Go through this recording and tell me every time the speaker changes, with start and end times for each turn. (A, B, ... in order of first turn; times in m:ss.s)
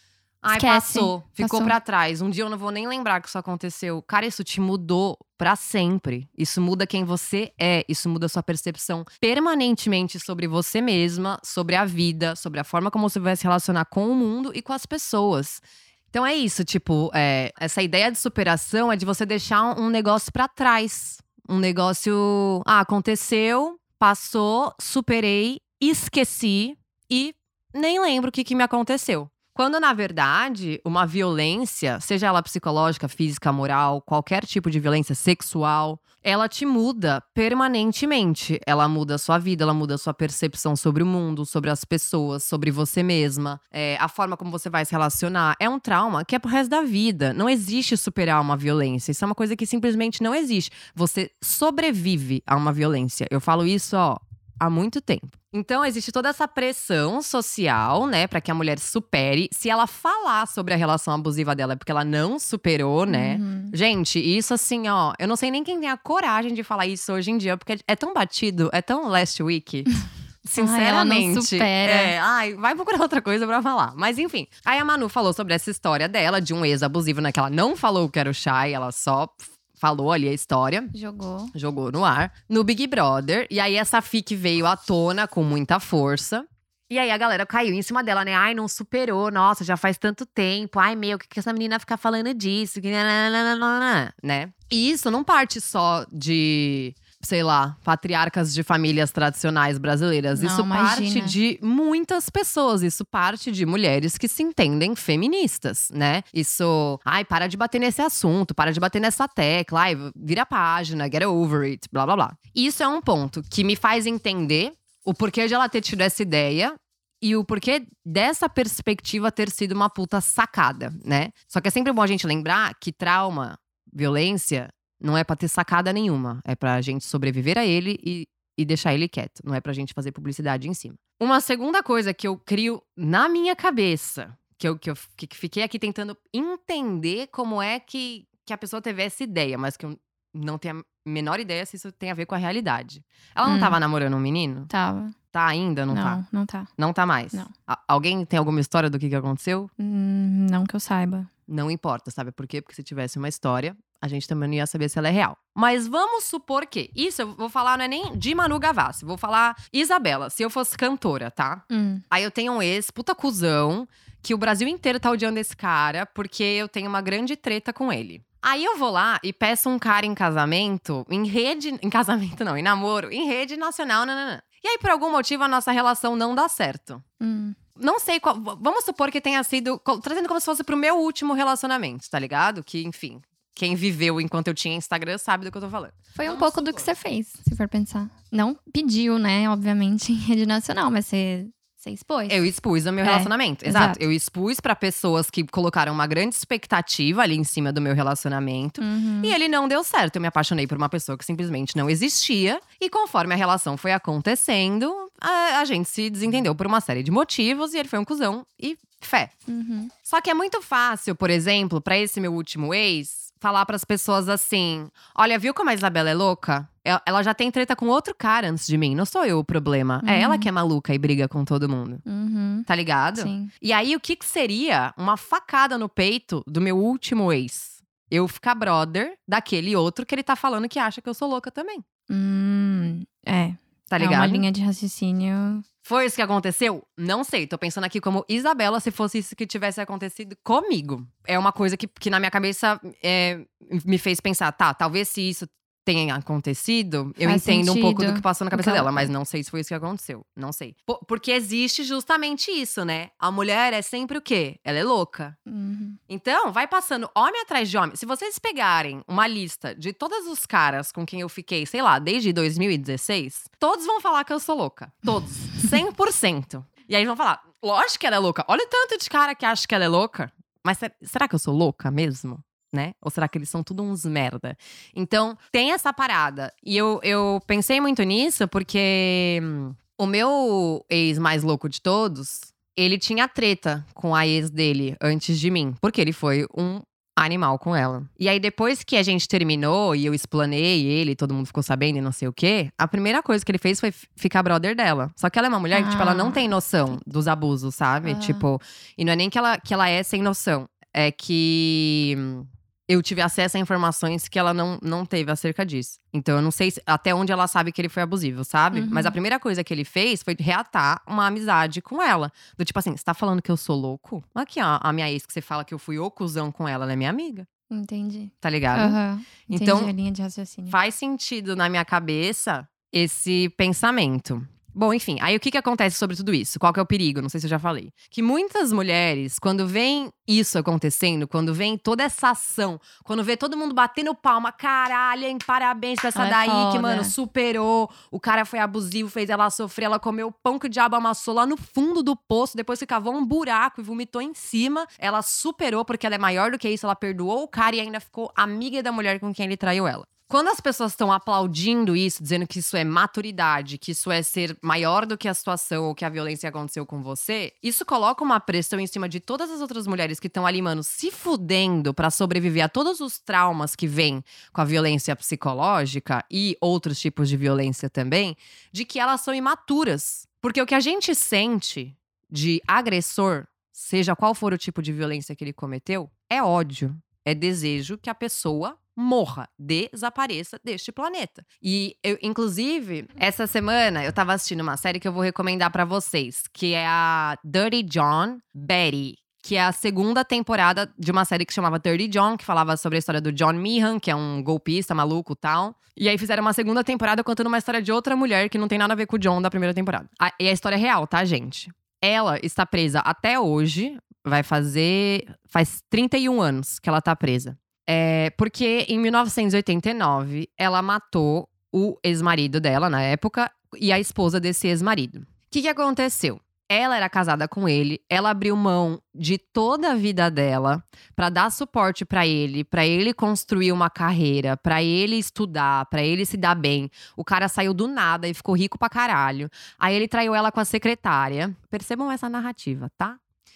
0:00.4-1:20.9 A
0:00.5-0:01.8 B
1:03.1-1:03.7 B
1:10.6-1:12.1 B
1:20.9-1:21.5 B
1:21.5-2:24.7 A
1:40.4-1:41.4 B
2:23.4-2:23.8 B
2:24.7-2:25.2 B
2:25.3-2:26.2 A
2:25.9-2:26.7 B
2:26.8-2:29.7 A
2:29.8-2:31.3 B
2:31.5-2:57.0 A
2:41.7-2:42.0 B
2:57.2-2:57.6 B
2:57.8-3:06.8 A
3:06.2-3:12.4 B
3:12.3-3:29.3 A
3:13.0-3:14.0 B
3:18.8-3:19.4 B
3:29.5-3:29.9 B
3:30.0-3:42.0 A
3:40.0-3:40.5 B
3:42.1-3:43.5 B
3:42.7-3:51.8 A
3:52.1-3:55.6 B
3:53.9-3:54.5 A
3:55.8-4:15.4 A
4:07.2-4:09.1 B
4:15.5-4:16.0 B
4:16.1-5:17.5 A
4:55.7-4:56.5 B
4:58.0-4:58.4 B
5:08.7-5:09.1 B
5:17.7-5:20.8 B
5:18.4-5:19.9 A
5:20.7-7:13.2 A
5:36.2-5:37.1 B